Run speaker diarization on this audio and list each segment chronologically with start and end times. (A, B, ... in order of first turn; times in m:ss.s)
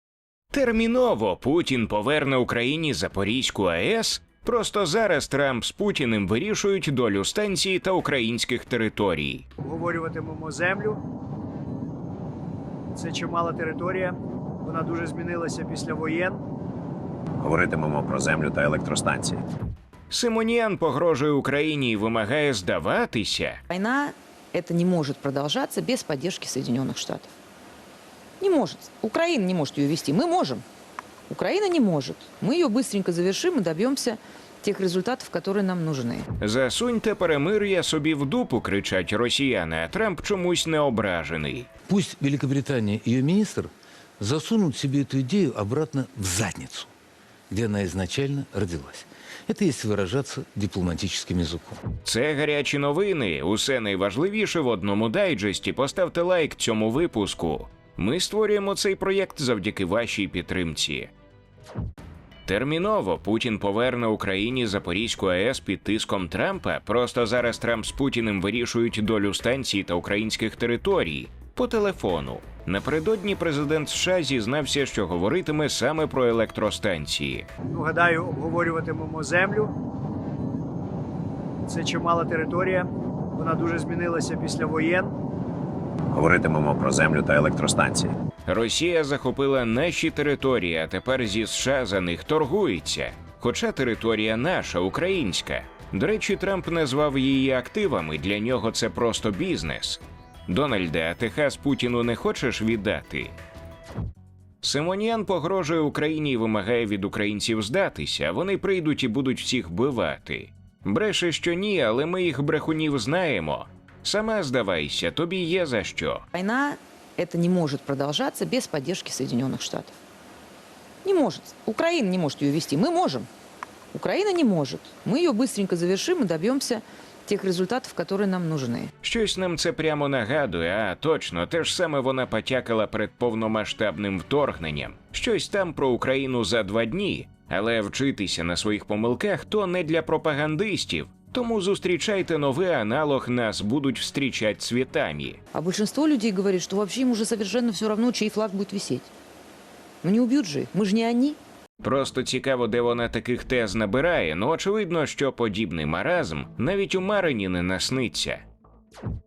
0:00.5-0:09.4 A
0:09.6-0:11.0 B
0:12.9-0:16.4 B
0:17.4-0:19.4 C
0:20.1-0:23.6 A
0:23.7-0:27.3 D
0:28.4-0:30.6 D
0:31.3-0:36.3 D
0:36.4-0:41.7 A
0:41.9-0:46.9 E
0:47.5-0:51.8 E
0:52.0-1:01.1 A
1:02.4-1:17.5 A
1:17.7-1:19.7 B
1:21.7-1:25.1 B
1:26.1-1:28.1 C
1:28.4-1:43.3 A
1:44.6-1:56.2 A
1:56.3-1:59.9 D
2:01.0-2:03.3 D
2:03.9-2:08.9 D
2:09.0-2:25.4 A
2:25.5-2:29.1 D
2:30.0-2:31.4 D
2:31.8-2:38.4 A